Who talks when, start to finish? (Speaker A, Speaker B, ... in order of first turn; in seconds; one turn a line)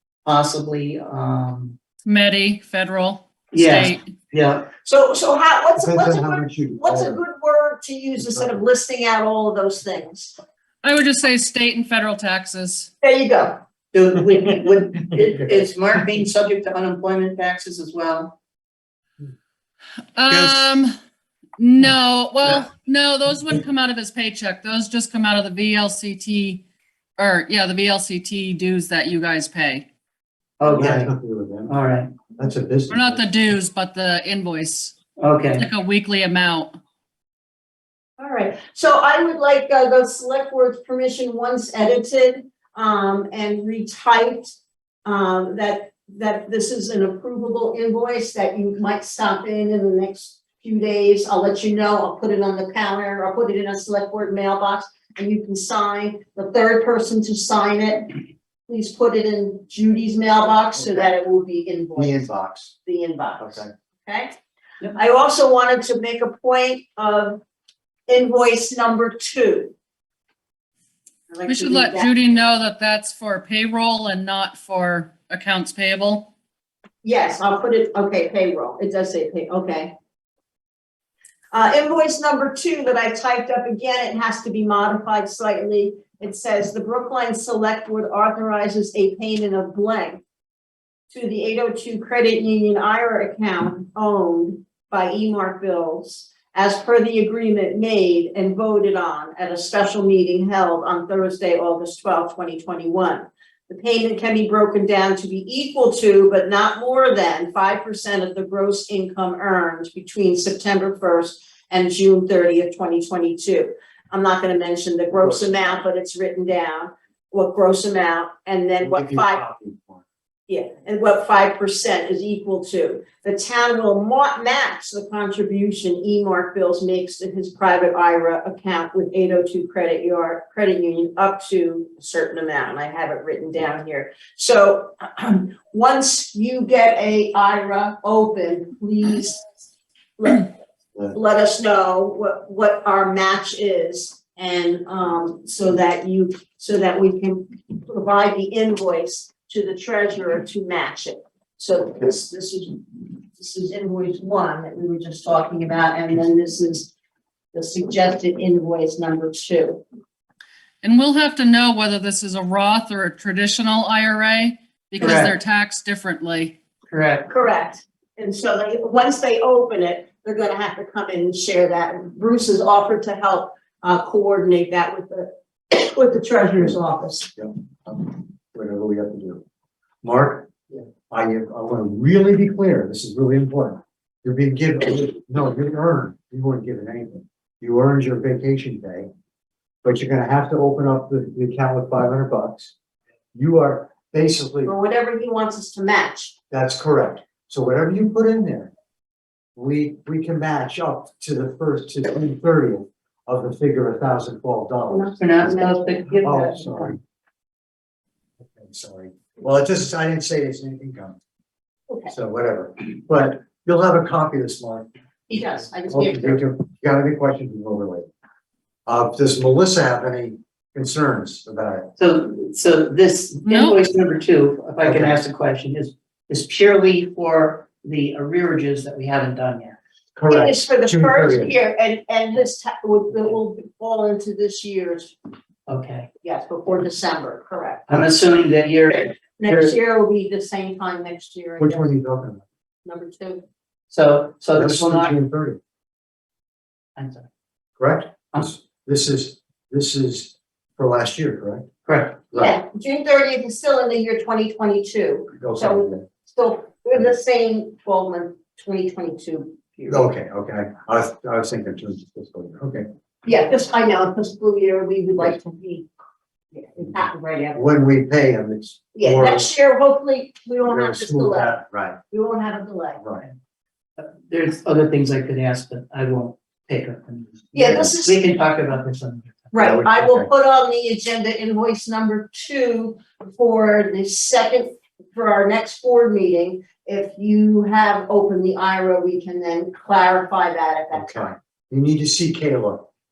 Speaker A: 0.3-1.8
Speaker B: 2.0-4.0
Speaker A: 3.5-4.7
Speaker C: 4.8-10.4
Speaker D: 5.8-7.2
Speaker D: 8.2-8.6
Speaker B: 10.8-12.9
Speaker C: 13.0-13.6
Speaker A: 13.9-18.4
Speaker B: 20.1-20.9
Speaker B: 21.6-26.6
Speaker B: 27.2-29.9
Speaker A: 30.6-31.1
Speaker D: 30.6-31.8
Speaker A: 31.7-32.1
Speaker D: 32.4-33.2
Speaker B: 32.9-35.0
Speaker A: 35.2-35.7
Speaker B: 35.5-36.8
Speaker C: 38.2-62.3
Speaker D: 62.0-62.8
Speaker C: 62.8-64.4
Speaker D: 63.4-63.7
Speaker C: 64.9-67.4
Speaker C: 68.1-69.7
Speaker C: 71.3-72.1
Speaker B: 71.5-76.3
Speaker C: 77.0-79.9
Speaker C: 81.5-90.2
Speaker C: 91.1-119.4
Speaker D: 115.2-115.5
Speaker D: 118.8-120.0
Speaker C: 120.5-139.4
Speaker C: 140.2-140.5
Speaker C: 141.1-156.9
Speaker C: 157.5-159.8
Speaker B: 160.8-166.6
Speaker A: 165.0-165.3
Speaker A: 166.9-167.3
Speaker C: 167.3-177.3
Speaker D: 177.4-179.4
Speaker D: 180.0-180.5
Speaker D: 181.1-189.1
Speaker D: 189.8-192.7
Speaker D: 193.3-194.7
Speaker C: 194.6-196.3
Speaker D: 196.5-198.7
Speaker D: 199.6-205.6
Speaker C: 204.9-206.0
Speaker A: 205.2-206.9
Speaker D: 206.2-207.0
Speaker D: 208.4-211.2
Speaker D: 212.1-214.9
Speaker C: 215.3-216.4
Speaker D: 215.9-218.1
Speaker D: 218.9-221.9
Speaker A: 222.0-229.8
Speaker B: 223.4-223.8
Speaker D: 224.8-225.2
Speaker D: 230.2-231.5
Speaker C: 230.3-235.1
Speaker A: 235.7-236.1
Speaker C: 236.2-237.9
Speaker A: 237.9-239.8
Speaker C: 239.4-241.9
Speaker D: 241.6-242.4
Speaker C: 242.8-243.4
Speaker A: 243.9-245.1
Speaker D: 244.5-245.6
Speaker A: 246.9-247.3
Speaker D: 247.8-251.7
Speaker A: 251.8-252.2
Speaker D: 252.3-252.6
Speaker C: 252.4-260.1
Speaker D: 255.3-256.1
Speaker D: 259.9-262.9
Speaker C: 263.2-265.9
Speaker C: 266.5-267.6
Speaker D: 267.5-269.5
Speaker C: 268.9-273.0
Speaker D: 270.6-272.0
Speaker D: 273.0-273.3
Speaker A: 274.0-279.5
Speaker C: 277.5-278.2
Speaker C: 279.5-291.3
Speaker D: 279.6-280.3
Speaker D: 290.9-292.9